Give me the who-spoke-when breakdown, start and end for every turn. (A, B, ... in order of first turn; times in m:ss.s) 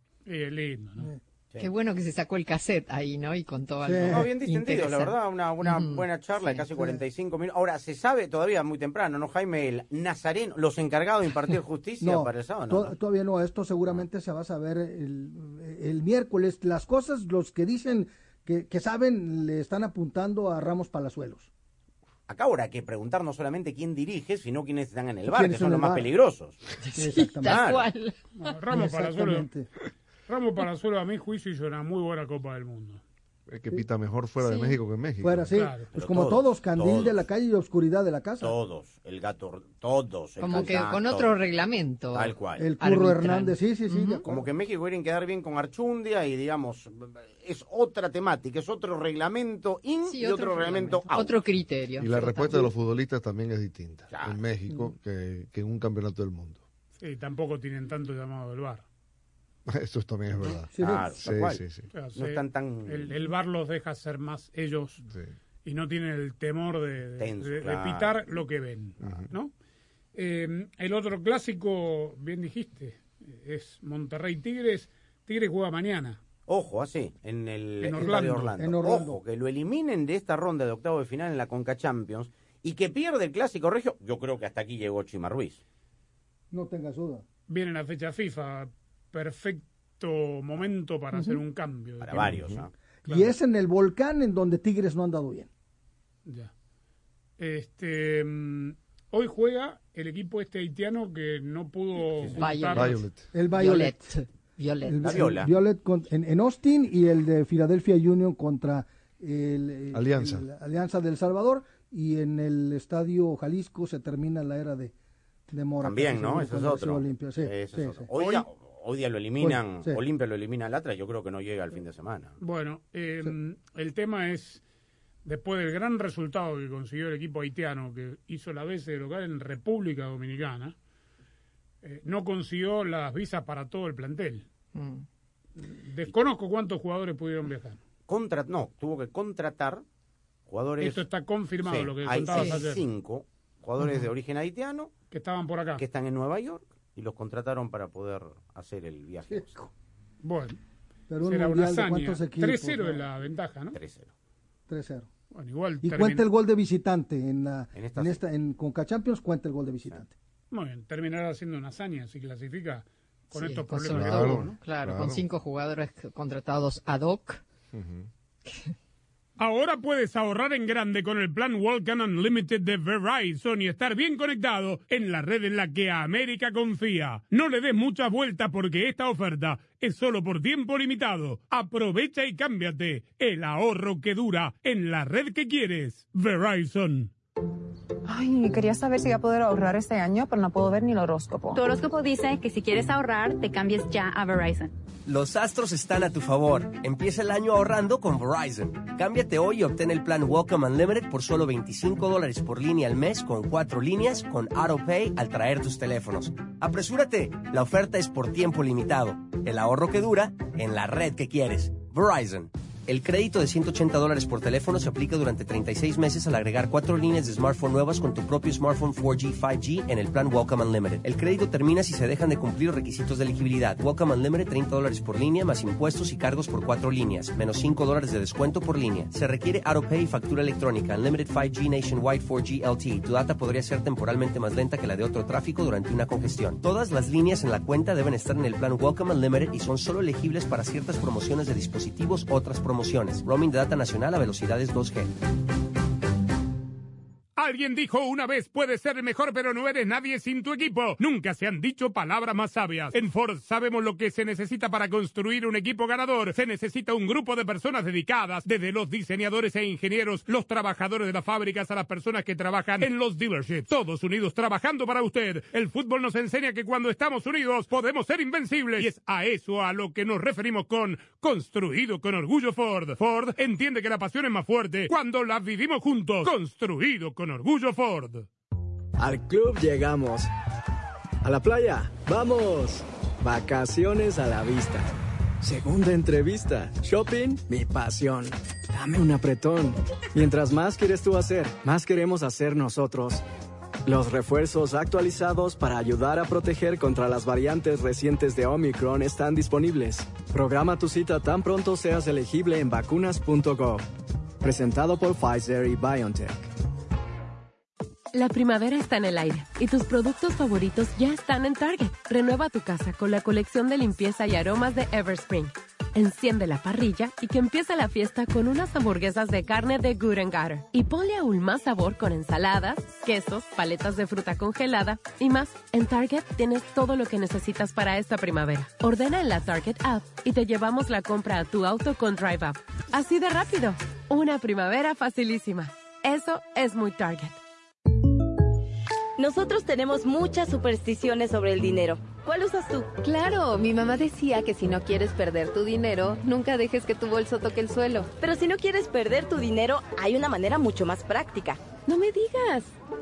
0:00.3-0:01.1 A
0:01.6-0:06.6 B
0:03.8-0:04.3 C
0:04.1-0:13.0 D
0:06.7-0:07.0 C
0:12.0-0:21.5 C
0:22.3-0:26.6 D
0:25.3-0:26.1 C
0:26.8-0:28.2 B
0:27.0-0:27.7 C
0:27.4-0:27.9 D
0:28.4-0:29.5 A
0:28.7-0:29.7 C
0:30.3-0:33.0 A
0:33.5-0:35.5 E
0:35.2-0:38.6 C
0:35.5-0:35.9 A
0:35.9-0:37.2 D
0:38.4-0:41.3 D
0:40.4-0:44.2 B
0:40.6-0:40.9 C
0:42.1-0:42.7 D
0:42.6-0:44.4 C
0:44.3-0:51.4 D
0:50.0-0:52.6 B
0:52.0-0:56.6 E
0:52.2-0:52.7 C
0:54.1-0:54.4 D
0:57.0-0:58.9 A
0:59.7-1:01.9 E
1:00.4-1:01.2 C
1:00.8-1:01.6 D
1:01.9-1:05.0 A
1:02.2-1:03.3 D
1:05.1-1:05.4 E
1:05.6-1:09.5 A
1:07.2-1:08.2 D
1:09.0-1:09.3 E
1:10.1-1:16.2 A
1:16.5-1:25.6 D
1:17.8-1:18.5 A
1:18.6-1:19.2 C
1:26.5-1:27.2 C
1:27.5-1:32.5 A
1:32.0-1:32.7 D
1:32.2-1:32.6 E
1:33.0-1:35.5 C
1:33.1-1:33.4 A
1:36.2-1:36.5 A
1:37.4-1:42.9 A
1:42.4-1:42.9 B
1:42.7-1:43.3 E
1:43.3-1:44.2 C
1:43.5-1:45.0 B
1:44.8-1:54.9 C
1:45.0-1:45.5 D
1:49.9-1:50.4 E
1:55.5-1:58.4 C
1:55.8-2:02.4 D
1:59.4-2:00.0 C
2:02.4-2:04.6 A
2:05.2-2:10.8 A
2:11.8-2:14.5 A
2:14.7-2:15.0 B
2:15.6-2:17.8 A
2:18.1-2:19.8 D
2:20.5-2:21.0 D
2:20.8-2:22.8 A
2:21.6-2:24.9 D
2:25.1-2:25.8 A
2:25.8-2:29.6 D
2:29.3-2:29.7 C
2:30.2-2:30.6 A
2:31.1-2:33.1 C
2:31.2-2:33.8 A
2:33.7-2:34.1 D
2:34.7-2:35.1 C
2:35.3-2:36.3 A
2:35.8-2:40.1 C
2:37.7-2:38.2 D
2:40.5-2:44.6 A
2:43.3-2:47.4 B
2:43.9-2:45.2 E
2:47.7-2:48.1 E
2:49.4-3:07.1 A
3:08.1-3:11.6 F
3:11.5-3:14.7 G
3:15.1-4:05.1 H
4:07.4-4:38.3 A
4:39.0-4:40.3 I
4:41.2-4:44.8 I
4:45.4-4:53.2 I
4:53.9-5:03.9 I
5:04.4-5:06.5 I
5:08.1-5:37.4 J
5:39.2-5:43.0 K
5:43.0-5:48.1 L
5:48.2-5:51.7 K
5:51.9-5:52.7 J